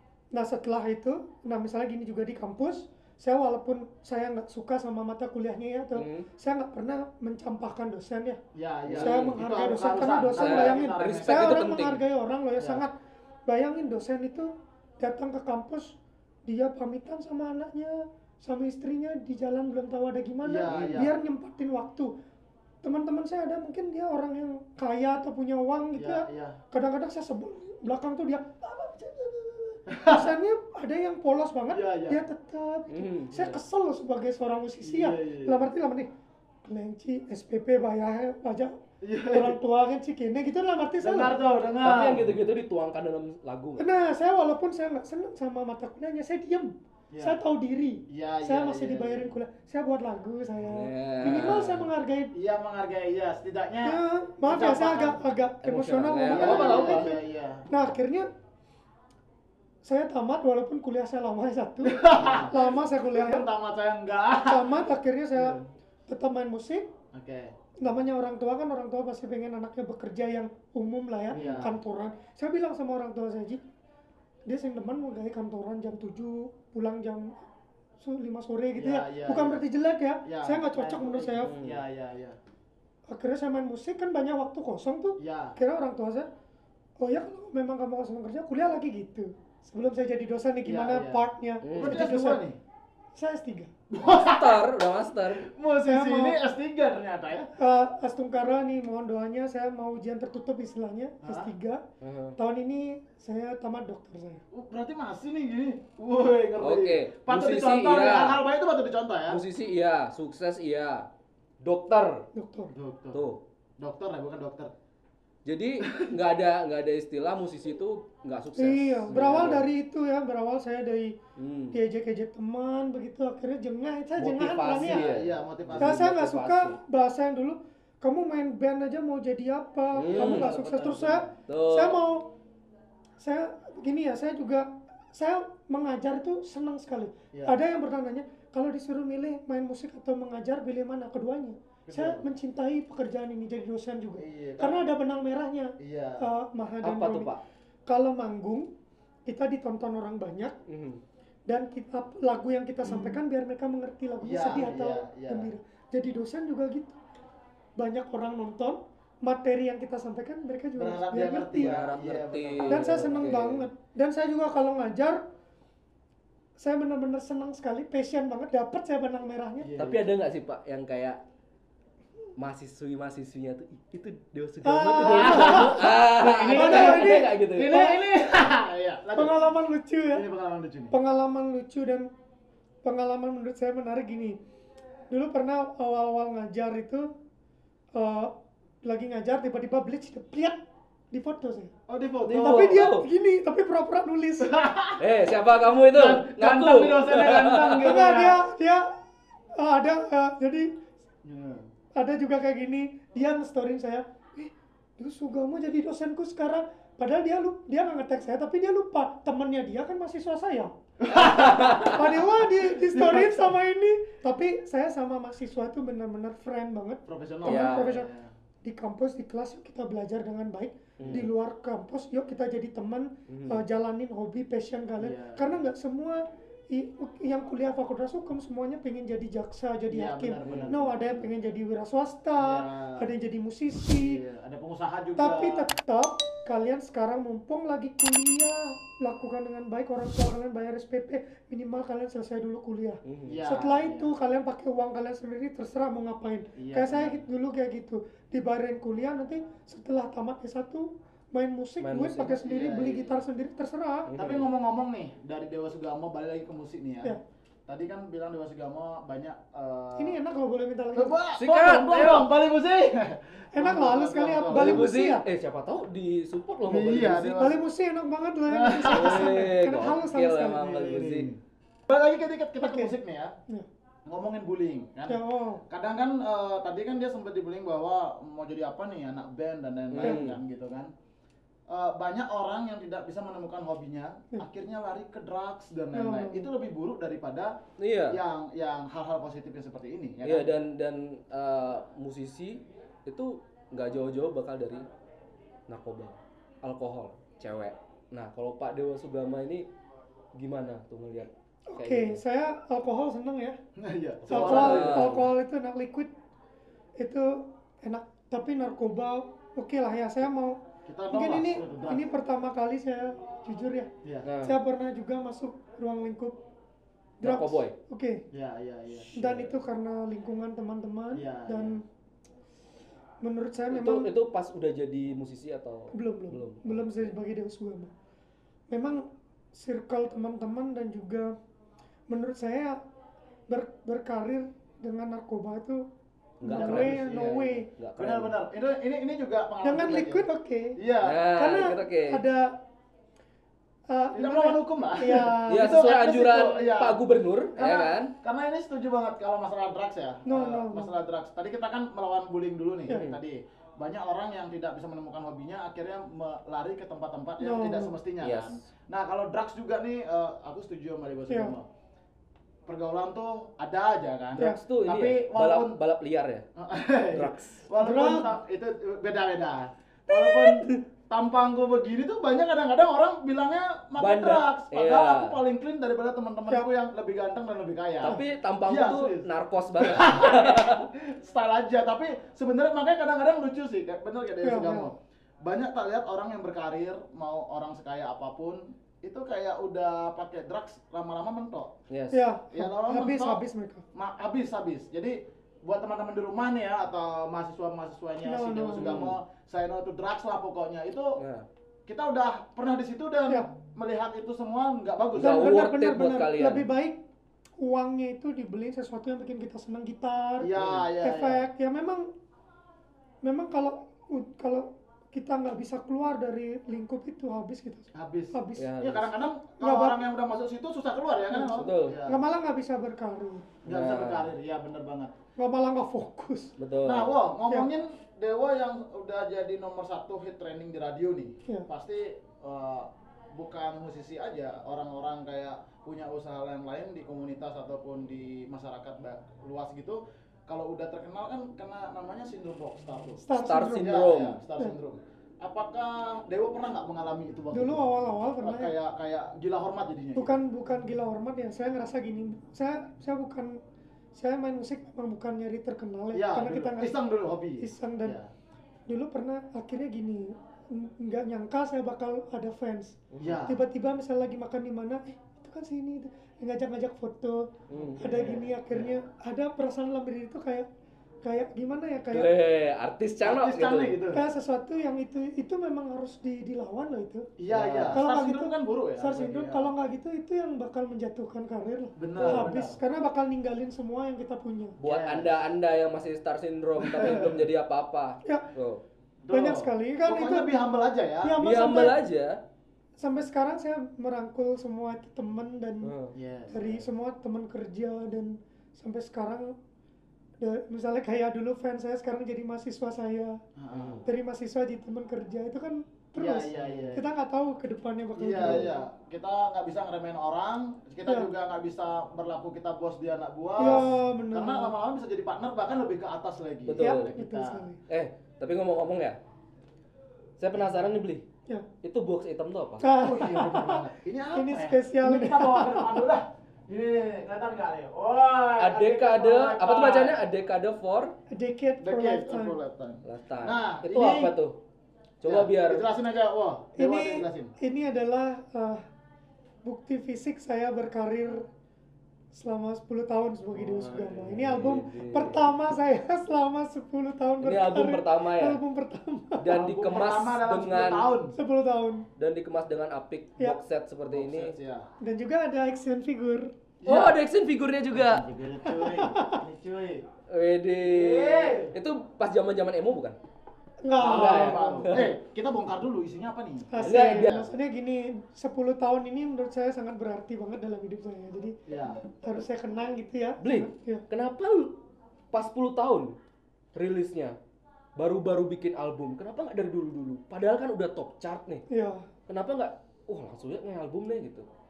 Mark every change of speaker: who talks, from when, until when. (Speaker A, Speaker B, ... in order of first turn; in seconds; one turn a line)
Speaker A: 0.3-8.4
Speaker B: 5.9-6.2
Speaker C: 8.5-11.6
Speaker B: 8.9-9.3
Speaker A: 9.0-12.9
Speaker B: 10.3-12.0
Speaker C: 12.6-12.8
Speaker A: 13.5-22.1
Speaker C: 20.4-21.1
Speaker A: 22.8-36.1
Speaker C: 25.9-26.6
Speaker C: 29.9-30.3
Speaker C: 31.7-32.2
Speaker B: 32.9-33.5
Speaker C: 34.8-35.6
Speaker A: 36.6-41.4
Speaker C: 39.0-39.6
Speaker C: 41.0-42.4
Speaker B: 41.8-43.8
Speaker A: 43.8-52.3
Speaker C: 47.1-47.4
Speaker C: 48.1-49.3
Speaker B: 50.7-51.9
Speaker C: 51.2-51.7
Speaker C: 52.3-55.2
Speaker A: 53.8-58.3
Speaker B: 55.6-57.1
Speaker C: 56.3-57.7
Speaker A: 59.8-63.5
Speaker C: 61.8-65.7
Speaker A: 64.4-66.9
Speaker C: 67.1-67.5
Speaker A: 67.8-73.6
Speaker C: 71.3-71.8
Speaker B: 71.3-71.6
Speaker A: 74.5-77.4
Speaker A: 78.0-81.5
Speaker C: 78.8-79.6
Speaker C: 80.2-82.4
Speaker B: 81.4-81.8
Speaker A: 83.1-86.3
Speaker C: 85.2-85.5
Speaker A: 87.0-92.4
Speaker C: 90.6-92.6
Speaker B: 91.6-92.0
Speaker A: 93.2-93.7
Speaker C: 93.9-94.7
Speaker B: 94.1-95.5
Speaker C: 95.3-97.5
Speaker A: 95.8-96.4
Speaker A: 97.6-101.8
Speaker C: 101.2-101.5
Speaker B: 102.0-102.3
Speaker A: 102.4-104.4
Speaker C: 104.5-109.4
Speaker B: 106.6-108.4
Speaker B: 109.3-111.1
Speaker B: 111.6-112.2
Speaker A: 112.3-112.7
Speaker C: 112.7-113.2
Speaker B: 113.1-113.4
Speaker C: 113.8-114.7
Speaker B: 115.5-119.7
Speaker A: 118.5-121.2
Speaker B: 121.4-121.8
Speaker A: 121.7-125.0
Speaker B: 124.2-126.8
Speaker C: 124.8-126.1
Speaker A: 125.8-132.3
Speaker B: 129.9-132.0
Speaker C: 130.1-130.5
Speaker A: 133.2-147.3
Speaker C: 137.3-137.6
Speaker C: 141.9-142.2
Speaker C: 144.2-144.9
Speaker C: 145.8-146.2
Speaker B: 146.8-147.4
Speaker A: 147.9-148.7
Speaker A: 149.3-150.6
Speaker B: 150.7-151.0
Speaker A: 151.5-157.0
Speaker C: 152.8-153.2
Speaker C: 154.2-155.5
Speaker A: 157.8-161.8
Speaker C: 160.8-163.3
Speaker B: 161.6-163.7
Speaker A: 162.7-165.2
Speaker A: 166.6-169.7
Speaker C: 169.6-170.1
Speaker B: 169.8-171.2
Speaker B: 172.4-177.7
Speaker A: 174.6-178.0
Speaker C: 175.0-179.5
Speaker A: 179.1-180.2
Speaker C: 180.1-180.9
Speaker A: 180.9-182.1
Speaker A: 182.8-184.4
Speaker A: 185.1-187.1
Speaker A: 187.9-190.6
Speaker A: 191.1-191.7
Speaker C: 191.9-192.9
Speaker B: 192.2-193.1
Speaker A: 192.3-194.6
Speaker C: 194.4-195.1
Speaker B: 195.0-198.0
Speaker C: 195.8-198.4
Speaker A: 197.8-198.9
Speaker A: 199.5-200.7
Speaker C: 201.2-201.7
Speaker A: 201.9-218.1
Speaker C: 211.0-213.6
Speaker B: 211.5-211.9
Speaker C: 217.1-218.3
Speaker B: 217.4-218.0
Speaker A: 218.6-234.2
Speaker B: 221.0-221.3
Speaker C: 221.0-221.3
Speaker B: 223.3-223.6
Speaker C: 225.0-225.6
Speaker C: 229.9-231.1
Speaker B: 230.4-230.7
Speaker C: 232.4-233.1
Speaker C: 233.9-235.7
Speaker A: 235.2-254.1
Speaker B: 243.0-243.4
Speaker C: 243.2-244.1
Speaker C: 246.6-247.2
Speaker B: 251.8-252.4
Speaker C: 252.3-253.2
Speaker B: 254.1-254.5
Speaker C: 254.1-260.2
Speaker A: 259.9-261.2
Speaker C: 260.9-264.9
Speaker B: 261.4-262.3
Speaker A: 263.5-265.2
Speaker B: 264.5-267.5
Speaker C: 266.6-267.6
Speaker A: 267.4-270.6
Speaker C: 268.5-269.4
Speaker B: 268.9-271.3
Speaker C: 270.6-273.3
Speaker A: 272.6-272.9
Speaker C: 274.1-280.9
Speaker A: 275.1-275.6
Speaker B: 279.9-280.4
Speaker C: 281.7-287.6
Speaker A: 285.9-286.5
Speaker B: 287.8-288.2
Speaker C: 288.1-290.5
Speaker B: 290.2-294.9
Speaker B: 295.7-299.7
Speaker B: 300.4-302.2
Speaker A: 301.7-303.6
Speaker C: 303.8-305.2
Speaker B: 304.2-305.3
Speaker A: 304.3-306.1
Speaker A: 307.0-310.6
Speaker C: 310.9-312.1
Speaker A: 311.1-313.9
Speaker B: 314.2-314.6
Speaker A: 314.4-316.4
Speaker A: 317.2-318.2
Speaker B: 317.2-317.7
Speaker C: 318.3-319.1
Speaker B: 319.1-319.6
Speaker A: 319.1-321.8
Speaker C: 321.1-321.8
Speaker A: 323.2-324.1
Speaker B: 323.7-327.1
Speaker A: 325.9-327.9
Speaker A: 328.7-331.3
Speaker A: 332.1-332.8
Speaker A: 333.5-335.8
Speaker B: 336.4-338.4
Speaker A: 336.4-337.6
Speaker C: 336.5-337.2
Speaker C: 337.9-341.2
Speaker A: 339.6-340.8
Speaker B: 341.0-342.2
Speaker A: 341.3-342.5
Speaker A: 343.9-345.9
Speaker C: 344.1-347.0
Speaker B: 345.5-348.1
Speaker C: 347.6-361.6
Speaker A: 350.2-350.9
Speaker B: 352.9-353.2
Speaker A: 357.4-357.9
Speaker B: 358.2-358.6
Speaker A: 361.3-361.5
Speaker C: 362.6-365.8
Speaker B: 364.4-366.4
Speaker C: 366.6-379.2
Speaker B: 367.1-367.6
Speaker A: 367.8-368.3
Speaker B: 370.1-370.7
Speaker B: 374.0-375.4
Speaker B: 378.0-380.9
Speaker C: 379.8-391.7
Speaker A: 384.4-384.9
Speaker B: 391.9-392.2
Speaker A: 392.1-393.8
Speaker C: 392.5-393.4
Speaker C: 393.9-401.2
Speaker A: 398.2-399.1
Speaker B: 398.8-399.1
Speaker B: 401.2-401.4
Speaker C: 401.9-405.5
Speaker B: 405.1-406.7
Speaker A: 405.2-407.0
Speaker A: 407.6-412.1
Speaker C: 410.4-411.4
Speaker B: 410.6-410.9
Speaker A: 413.2-418.7
Speaker C: 417.9-422.2
Speaker B: 418.6-419.1
Speaker A: 419.6-420.0
Speaker B: 421.4-422.0
Speaker A: 422.1-423.5
Speaker C: 423.6-425.1
Speaker B: 423.7-424.3
Speaker A: 425.4-426.6
Speaker B: 426.6-427.2
Speaker C: 426.8-443.2
Speaker A: 443.2-444.0
Speaker B: 443.3-444.4
Speaker C: 443.8-447.9
Speaker A: 447.5-448.7
Speaker C: 448.4-450.4
Speaker A: 450.1-453.6
Speaker A: 454.1-456.9
Speaker C: 456.1-458.3
Speaker A: 457.6-458.2
Speaker A: 458.9-470.7
Speaker B: 463.1-463.4
Speaker C: 463.2-463.6
Speaker B: 467.7-468.0
Speaker C: 468.0-469.0
Speaker A: 471.2-472.3
Speaker B: 472.1-474.0
Speaker C: 473.2-474.2
Speaker A: 474.1-477.3
Speaker C: 477.4-479.7
Speaker B: 477.5-478.0
Speaker A: 477.9-484.8
Speaker C: 482.0-482.8
Speaker B: 482.2-482.5
Speaker B: 484.8-488.8
Speaker C: 484.8-485.3
Speaker C: 486.8-487.4
Speaker C: 489.2-491.4
Speaker A: 489.3-490.5
Speaker A: 491.2-492.0
Speaker B: 491.4-492.4
Speaker A: 493.0-495.9
Speaker B: 495.8-496.1
Speaker C: 496.1-496.9
Speaker A: 496.5-499.5
Speaker A: 500.4-503.4
Speaker C: 503.6-504.0
Speaker B: 503.7-504.0
Speaker A: 504.0-508.7
Speaker C: 506.1-507.0
Speaker B: 506.6-506.9
Speaker C: 508.2-517.7
Speaker B: 508.4-508.6
Speaker A: 513.6-514.7
Speaker B: 513.6-513.9
Speaker B: 516.6-517.1
Speaker A: 516.8-517.8
Speaker B: 517.9-519.2
Speaker B: 520.4-521.2
Speaker B: 521.8-522.8
Speaker A: 522.8-526.1
Speaker C: 523.0-530.2
Speaker B: 528.6-531.1
Speaker A: 531.3-532.5
Speaker C: 531.8-534.3
Speaker B: 533.0-534.5
Speaker B: 535.2-535.9
Speaker C: 535.2-537.5
Speaker A: 536.8-538.8
Speaker A: 539.6-541.5
Speaker A: 542.3-549.4
Speaker B: 543.7-545.4
Speaker B: 547.4-548.6
Speaker B: 549.4-551.1
Speaker C: 549.5-551.3
Speaker A: 551.4-552.0
Speaker B: 552.2-554.5
Speaker C: 554.1-554.9
Speaker A: 555.0-556.5
Speaker C: 556.8-557.2
Speaker B: 556.9-558.2
Speaker C: 557.9-560.0
Speaker A: 558.6-559.4
Speaker B: 560.3-563.2
Speaker C: 560.9-561.8
Speaker A: 563.8-564.9
Speaker C: 564.0-567.5
Speaker B: 564.0-565.1
Speaker A: 566.7-571.5
Speaker B: 566.8-567.5
Speaker C: 571.7-572.0
Speaker A: 572.1-574.0
Speaker B: 573.4-574.7
Speaker B: 575.3-576.1
Speaker B: 576.7-577.4
Speaker B: 578.0-581.6
Speaker A: 581.7-582.1
Speaker B: 582.3-584.5